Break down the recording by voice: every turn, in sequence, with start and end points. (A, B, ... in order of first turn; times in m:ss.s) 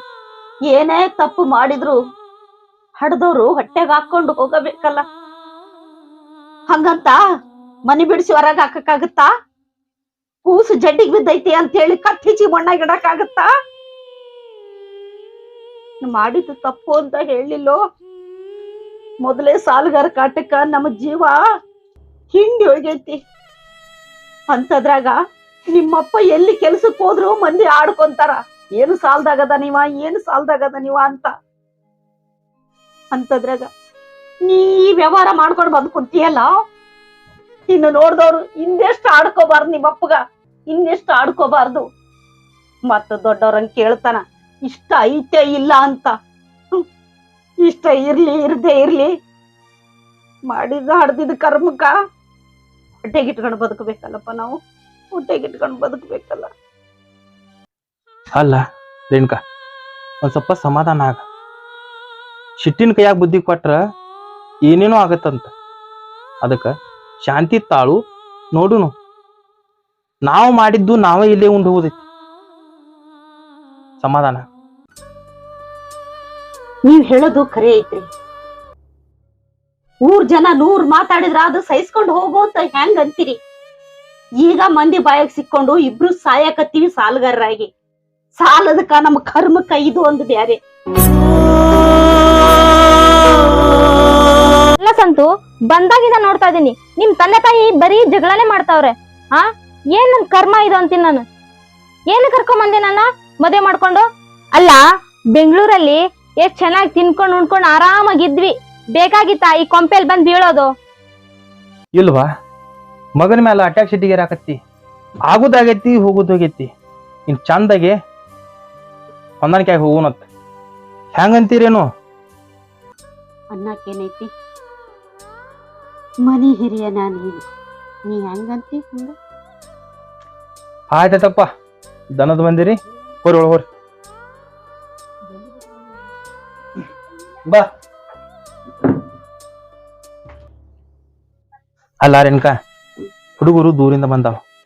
0:00.7-0:02.0 A
0:03.0-0:05.0 A
0:06.7-0:07.2 A
0:07.9-0:09.3 A
0:10.4-0:13.5 A
0:16.0-0:17.8 A
0:19.2-0:21.4 A
0:22.3-0:23.2 A
0:24.5-0:25.2 A
0:25.7-0:31.3 A
0:33.1-0:33.7 A
0:34.5-0:36.5 A
0:37.7-0:40.2 A
0:40.7-0:41.8 A
0:42.9-0:46.1 A
0:47.6-0:49.1 A
0:50.5-0:51.9 A
0:53.1-0:54.6 A
0:55.2-0:56.5 A
0:58.4-0:59.4 B
1:00.2-1:01.2 B
1:02.6-1:03.8 B
1:04.6-1:05.5 B
1:06.4-1:06.7 B
1:07.2-1:08.0 B
1:08.5-1:08.9 B
1:10.2-1:12.0 B
1:14.0-1:14.4 B
1:16.9-1:18.1 A
1:20.0-1:23.4 A
1:24.4-1:27.7 A
1:28.4-1:30.6 A
1:34.8-1:39.4 C
1:40.0-1:41.2 C
1:42.1-1:44.0 C
1:45.4-1:50.7 C
1:52.0-1:52.2 B
1:53.2-1:54.6 B
1:55.3-1:56.7 B
1:57.3-1:57.9 B
1:59.4-2:00.3 B
2:01.1-2:01.9 B
2:03.5-2:04.3 A
2:06.2-2:07.4 A
2:08.1-2:09.1 A
2:10.9-2:11.5 B
2:12.1-2:13.6 B
2:22.0-2:22.5 B
2:23.4-2:24.4 B